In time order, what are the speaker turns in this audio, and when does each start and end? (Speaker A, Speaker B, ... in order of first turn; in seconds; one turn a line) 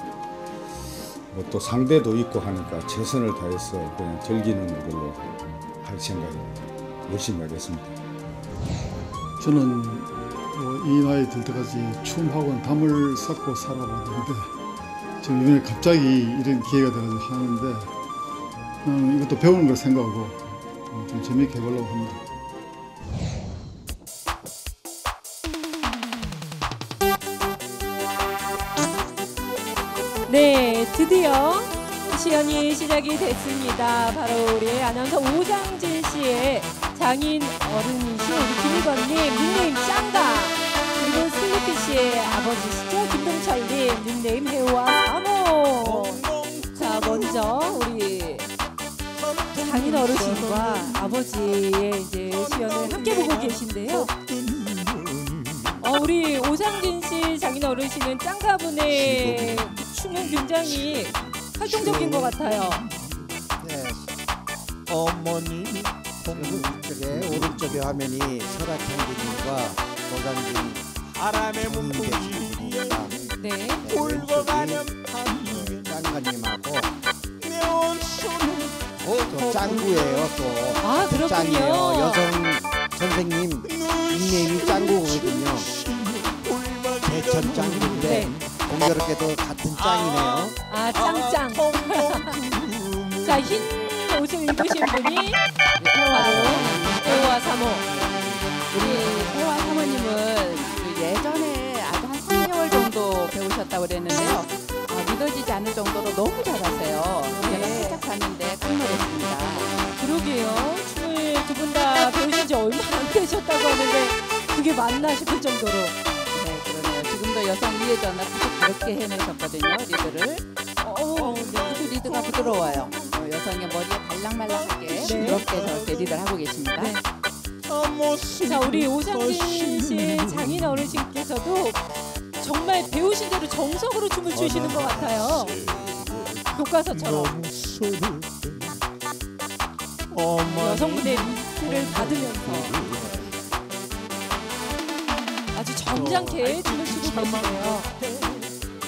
Speaker A: 1.3-7.9
Speaker B: 9.4-14.5
Speaker B: 15.2-17.9
Speaker B: 18.8-22.2
Speaker C: 30.3-46.2
Speaker D: 45.8-47.5
Speaker C: 46.7-48.5
Speaker D: 49.1-51.2
Speaker C: 49.6-54.1
Speaker D: 52.3-55.8
Speaker C: 55.8-62.9
Speaker D: 58.9-63.3
Speaker E: 63.6-64.1
Speaker D: 64.9-68.0
Speaker E: 66.3-71.0
Speaker D: 71.1-76.1
Speaker E: 71.6-73.1
Speaker C: 73.4-73.8
Speaker E: 73.8-74.9
Speaker E: 75.5-76.9
Speaker D: 77.4-80.5
Speaker E: 79.1-85.7
Speaker C: 80.8-82.3
Speaker D: 83.7-88.4
Speaker E: 87.1-90.5
Speaker C: 88.0-88.3
Speaker D: 89.7-93.7
Speaker C: 90.7-92.4
Speaker C: 93.2-95.4
Speaker F: 95.8-97.4
Speaker C: 96.1-98.1
Speaker F: 98.7-109.9
Speaker C: 98.7-99.2
Speaker C: 107.3-108.0
Speaker C: 110.0-116.0
Speaker F: 116.3-127.0
Speaker D: 121.1-123.3
Speaker C: 121.3-121.8
Speaker D: 124.5-126.3
Speaker C: 125.0-125.5
Speaker C: 126.8-127.0
Speaker D: 127.6-131.0
Speaker C: 128.4-131.8
Speaker C: 132.4-135.6
Speaker D: 134.3-138.8
Speaker C: 136.6-137.3
Speaker D: 140.1-143.3
Speaker C: 140.5-142.8
Speaker C: 145.5-147.9
Speaker D: 145.9-148.5